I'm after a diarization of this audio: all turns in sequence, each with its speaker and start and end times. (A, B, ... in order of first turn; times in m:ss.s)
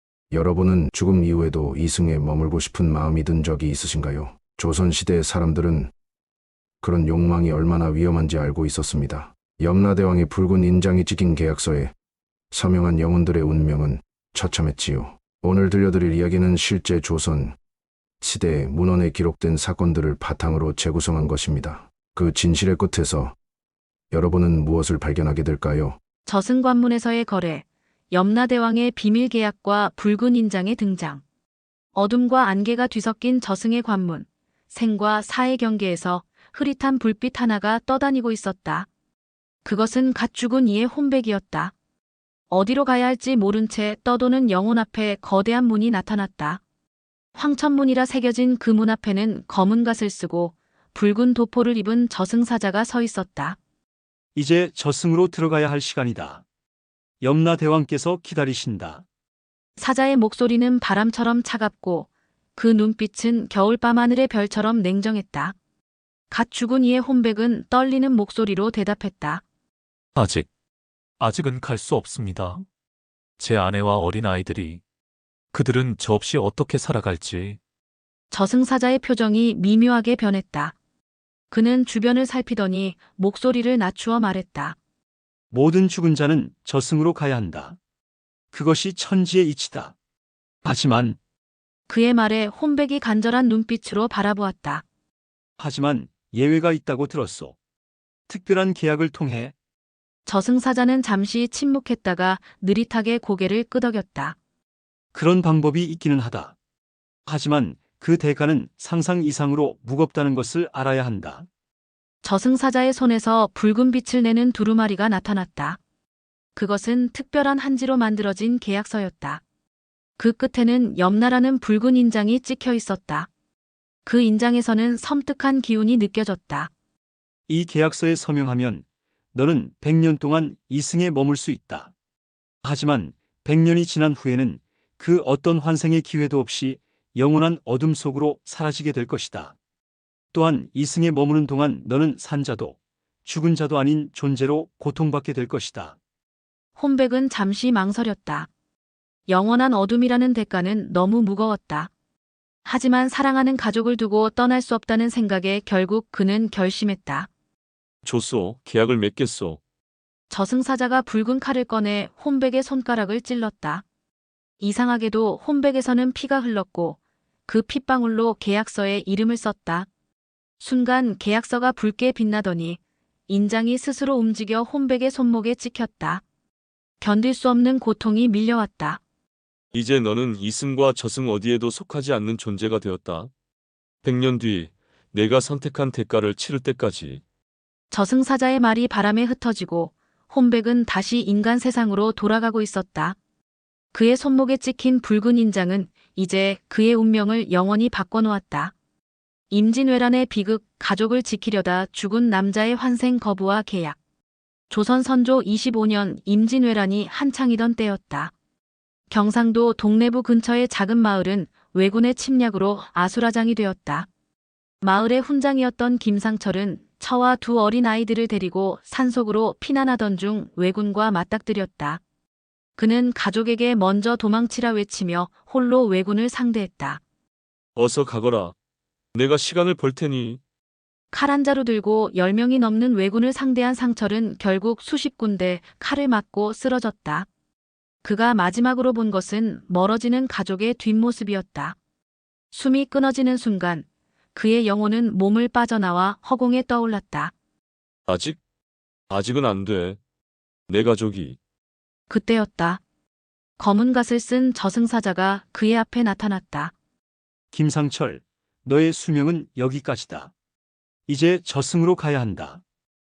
0:00.3-0:05.9 A
0:06.8-0:11.9 A
0:12.5-0:17.6 A
0:18.2-0:23.4 A
0:24.1-0:26.0 A
0:26.2-0:31.2 B
0:31.9-0:38.9 B
0:39.6-0:41.7 B
0:42.5-0:46.6 B
0:47.4-0:53.6 B
0:54.4-0:56.4 C
0:57.2-0:59.0 C
0:59.8-1:05.6 B
1:06.3-1:09.4 B
1:10.2-1:10.4 D
1:11.2-1:12.6 D
1:13.4-1:14.8 D
1:15.5-1:17.6 D
1:18.3-1:20.7 B
1:21.5-1:24.8 B
1:25.5-1:27.8 C
1:28.5-1:29.9 C
1:30.6-1:31.2 C
1:31.9-1:34.8 B
1:35.6-1:37.6 C
1:38.3-1:39.5 C
1:40.2-1:44.4 B
1:45.1-1:46.6 C
1:47.3-1:51.4 C
1:52.2-1:55.8 B
1:56.6-1:59.4 B
2:00.2-2:03.3 B
2:04.0-2:06.7 B
2:07.5-2:11.9 C
2:12.6-2:19.6 C
2:20.3-2:26.0 C
2:26.8-2:28.5 B
2:29.3-2:31.9 B
2:32.6-2:37.3 B
2:38.0-2:39.6 E
2:40.3-2:43.8 B
2:44.6-2:49.9 B
2:50.6-2:56.2 B
2:57.0-2:59.0 B
2:59.7-3:03.3 E
3:04.0-3:07.2 E
3:07.9-3:13.2 B
3:13.9-3:18.7 B
3:19.5-3:24.0 B
3:24.7-3:28.3 B
3:29.1-3:34.1 B
3:34.8-3:42.0 B
3:42.8-3:47.0 B
3:47.8-3:48.5 E
3:49.1-3:50.4 E
3:51.1-3:57.3 B
3:58.0-4:01.8 B
4:02.5-4:07.3 B
4:08.1-4:08.4 E
4:09.1-4:10.0 E
4:10.7-4:11.4 E
4:12.1-4:12.8 B
4:13.6-4:16.7 B
4:17.5-4:20.3 C
4:21.1-4:22.6 C